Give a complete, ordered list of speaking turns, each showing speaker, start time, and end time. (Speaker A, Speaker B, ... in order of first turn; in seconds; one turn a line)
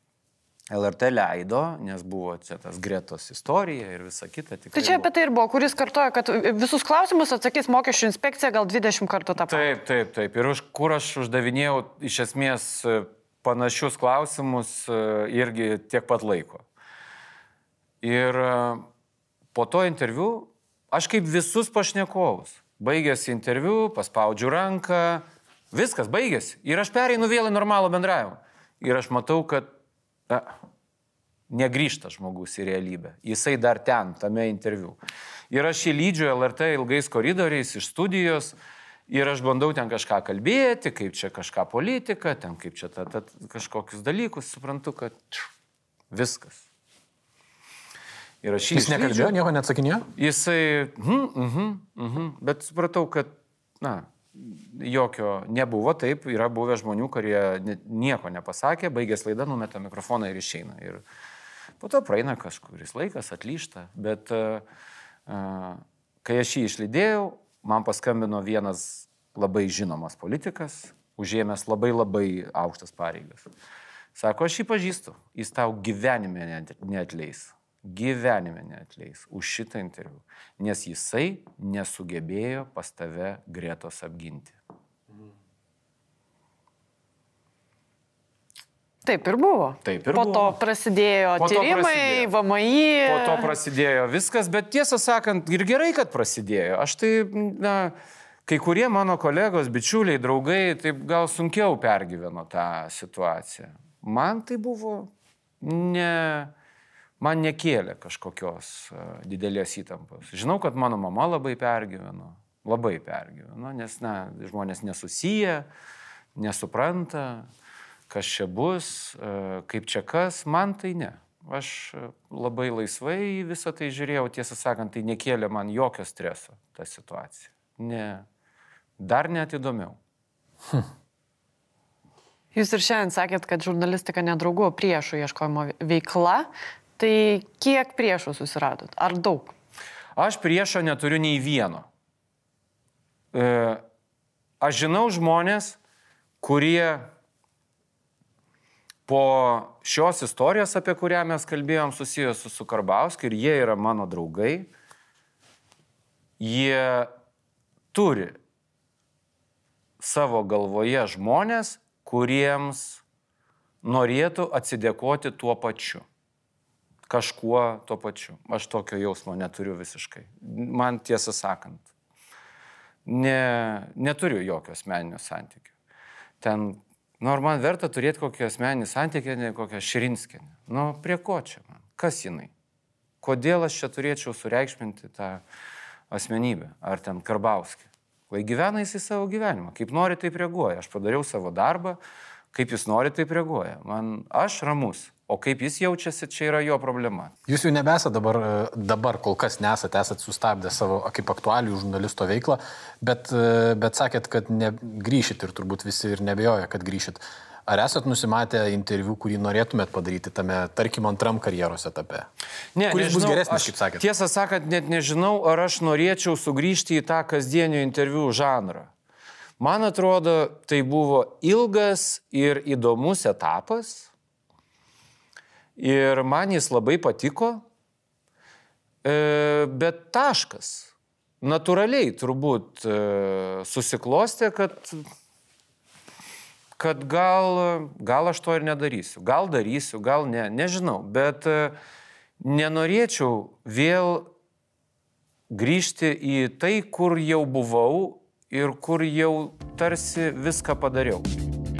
Speaker A: 0.7-5.1
Speaker B: 4.7-9.7
Speaker A: 9.4-16.6
Speaker A: 18.0-18.9
Speaker A: 19.5-29.7
Speaker A: 31.5-35.0
Speaker A: 35.5-38.5
Speaker A: 39.1-45.5
Speaker A: 46.1-46.6
Speaker A: 48.4-49.3
Speaker C: 48.7-50.1
Speaker A: 50.1-61.0
Speaker A: 61.8-64.6
Speaker A: 65.3-73.5
Speaker A: 74.1-84.6
Speaker B: 89.0-93.5
Speaker A: 89.8-90.6
Speaker A: 91.4-92.3
Speaker A: 93.0-97.9
Speaker A: 98.5-105.1
Speaker A: 105.6-106.5
Speaker A: 107.2-115.7
Speaker A: 116.3-117.5
Speaker A: 118.1-128.2
Speaker A: 129.0-130.0
Speaker B: 132.5-139.5
Speaker A: 140.2-141.9
Speaker A: 143.3-143.8
Speaker A: 144.6-145.8
Speaker A: 146.4-147.1
Speaker A: 149.1-154.7
Speaker A: 156.4-157.1
Speaker A: 157.9-158.4
Speaker A: 160.0-163.0
Speaker A: 163.8-166.0
Speaker A: 167.1-171.8
Speaker A: 173.1-175.7
Speaker A: 176.4-182.5
Speaker A: 183.2-185.4
Speaker A: 186.1-192.0
Speaker A: 192.5-197.3
Speaker C: 197.5-212.2
Speaker A: 212.8-218.9
Speaker C: 212.9-214.1
Speaker A: 219.6-224.1
Speaker A: 225.8-227.6
Speaker A: 229.0-235.0
Speaker A: 236.8-241.8
Speaker A: 242.4-244.3
Speaker A: 245.5-251.3